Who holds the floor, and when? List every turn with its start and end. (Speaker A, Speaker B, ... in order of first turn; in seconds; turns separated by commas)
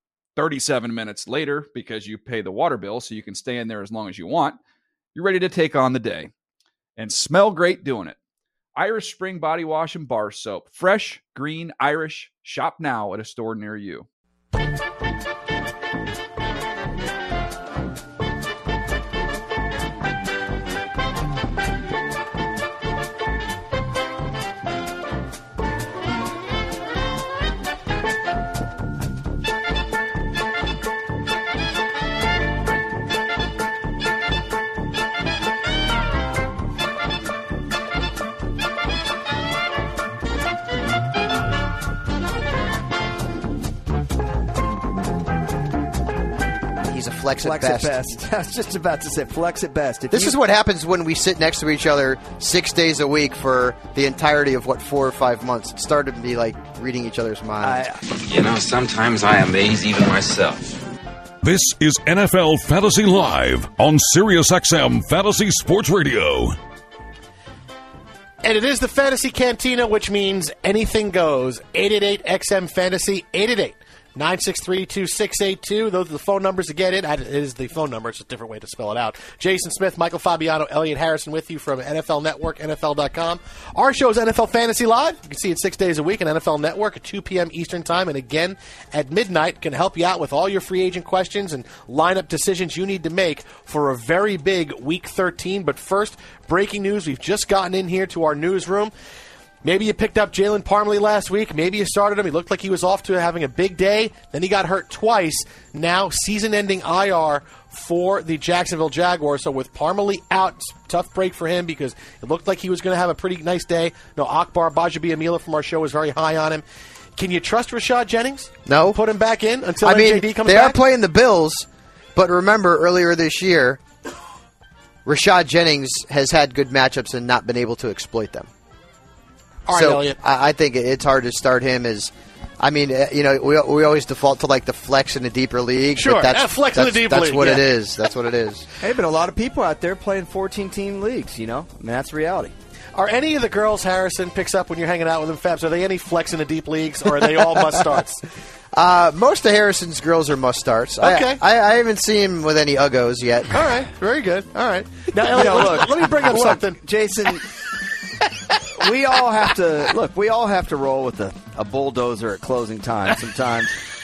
Speaker A: 0.4-4.6, Speaker A: 5.2-6.3, Speaker A: 7.0-8.2, Speaker A: 8.8-14.1, Speaker B: 46.9-48.0, Speaker C: 47.4-50.4, Speaker B: 50.1-57.9, Speaker C: 57.6-58.0, Speaker D: 58.1-60.8, Speaker E: 61.4-66.6, Speaker F: 68.4-98.9, Speaker F: 99.6-116.6, Speaker F: 117.2-120.8, Speaker B: 118.7-119.0, Speaker B: 119.8-123.8, Speaker B: 125.0-128.5, Speaker F: 129.7-130.2, Speaker B: 129.7-138.7, Speaker F: 136.0-137.7, Speaker C: 138.8-142.5, Speaker F: 142.9-148.2, Speaker B: 148.7-153.7, Speaker F: 151.0-151.4, Speaker F: 153.5-156.8, Speaker C: 155.3-157.4, Speaker C: 158.7-163.8